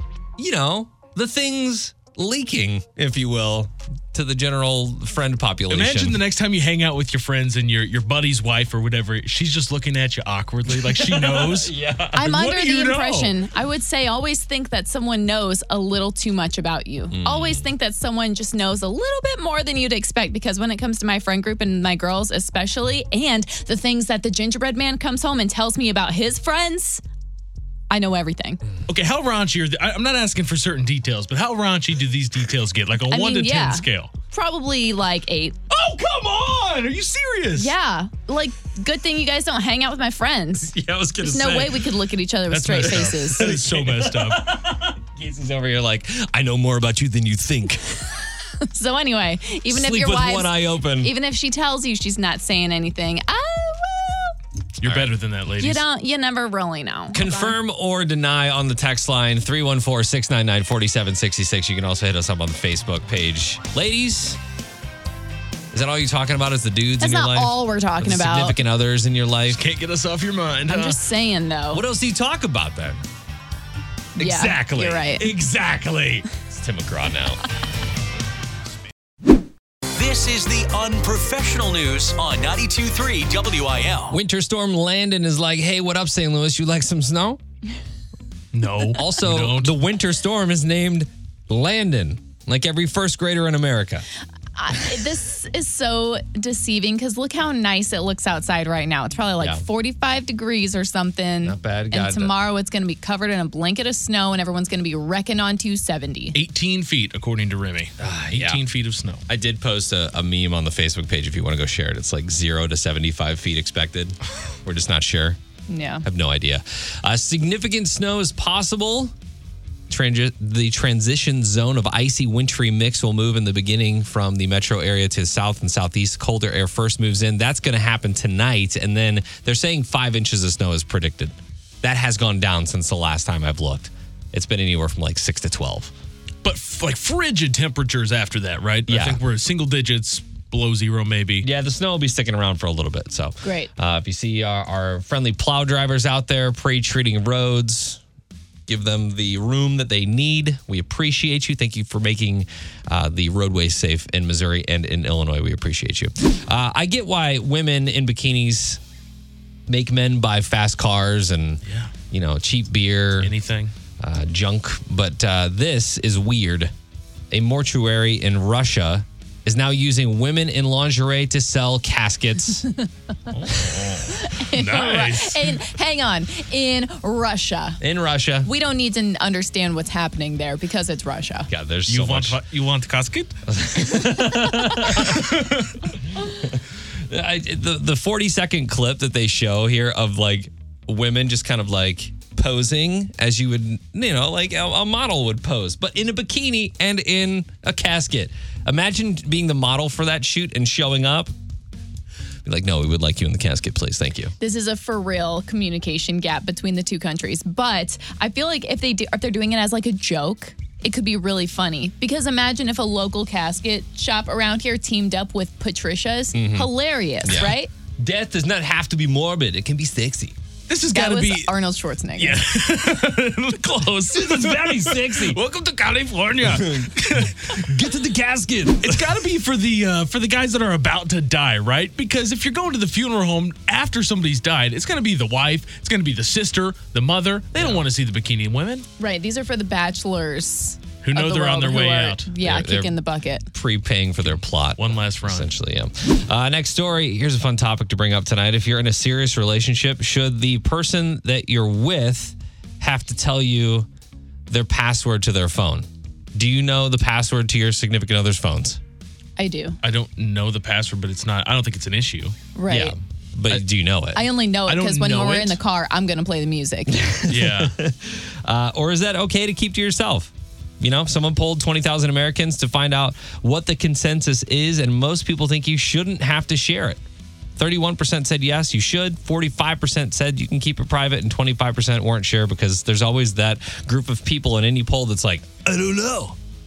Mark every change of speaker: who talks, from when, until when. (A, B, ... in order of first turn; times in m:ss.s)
0:00.4-0:06.2 A
0:05.7-0:13.4 B
0:10.7-0:12.2 A
0:12.1-0:27.0 C
0:17.1-0:17.6 A
0:27.9-0:28.6 C
0:28.9-0:34.1 B
0:33.1-0:35.6 C
0:35.7-0:37.7 B
0:37.5-0:43.6 C
0:40.6-0:42.0 A
0:42.5-0:44.4 B
0:42.7-0:48.2 A
0:48.6-0:54.4 C
0:49.7-0:51.1 A
0:54.8-0:55.1 A
0:54.8-0:55.8 B
0:55.6-0:57.6 C
0:57.1-1:04.4 A
1:05.7-1:09.6 A
1:07.0-1:08.6 C
1:09.5-1:11.0 B
1:10.7-1:11.8 C
1:11.7-1:13.0 A
1:14.2-1:15.3 C
1:14.2-1:16.2 B
1:15.6-1:17.4 A
1:19.9-1:24.2 D
1:24.1-1:27.4 A
1:28.5-1:29.7 B
1:28.9-1:34.0 A
1:34.6-1:46.4 C
1:41.4-1:42.3 A
1:46.3-1:49.2 B
1:48.0-1:48.6 A
1:49.3-1:55.4 A
1:55.7-1:56.0 C
1:56.0-1:59.1 A
1:59.9-2:15.9 A
2:16.4-2:21.5 B
2:18.9-2:19.2 A
2:21.4-2:28.0 A
2:23.4-2:23.7 C
2:28.7-2:38.8 A
2:39.7-2:43.3 A
2:41.6-2:41.9 B
2:43.2-2:43.7 B
2:44.0-2:46.7 A
2:47.3-2:52.7 A
2:53.3-2:55.6 B
2:54.1-2:57.8 C
2:57.8-2:58.5 A
2:58.4-3:01.5 C
3:01.5-3:02.4 A
3:01.9-3:03.3 B
3:03.5-3:05.3 A
3:04.9-3:05.6 B
3:06.2-3:21.3 A
3:22.4-3:24.3 A
3:24.4-3:37.7 C
3:36.3-3:36.7 A
3:37.2-3:40.4 A
3:40.7-3:41.5 B
3:40.9-3:42.4 C
3:42.2-3:47.6 B
3:44.1-3:49.1 A
3:48.8-3:58.8 B
3:57.5-3:57.9 A
3:59.0-4:03.5 C
4:01.0-4:02.3 B
4:02.4-4:03.0 A
4:03.5-4:13.9 A
4:04.8-4:05.5 B
4:14.5-4:18.8 A
4:19.4-4:19.8 C
4:19.8-4:22.3 B
4:22.5-4:22.9 C
4:22.7-4:24.3 A
4:24.1-4:27.3 C
4:24.6-4:25.6 B
4:26.9-4:37.0 A
4:27.3-4:27.7 B
4:37.6-4:46.4 A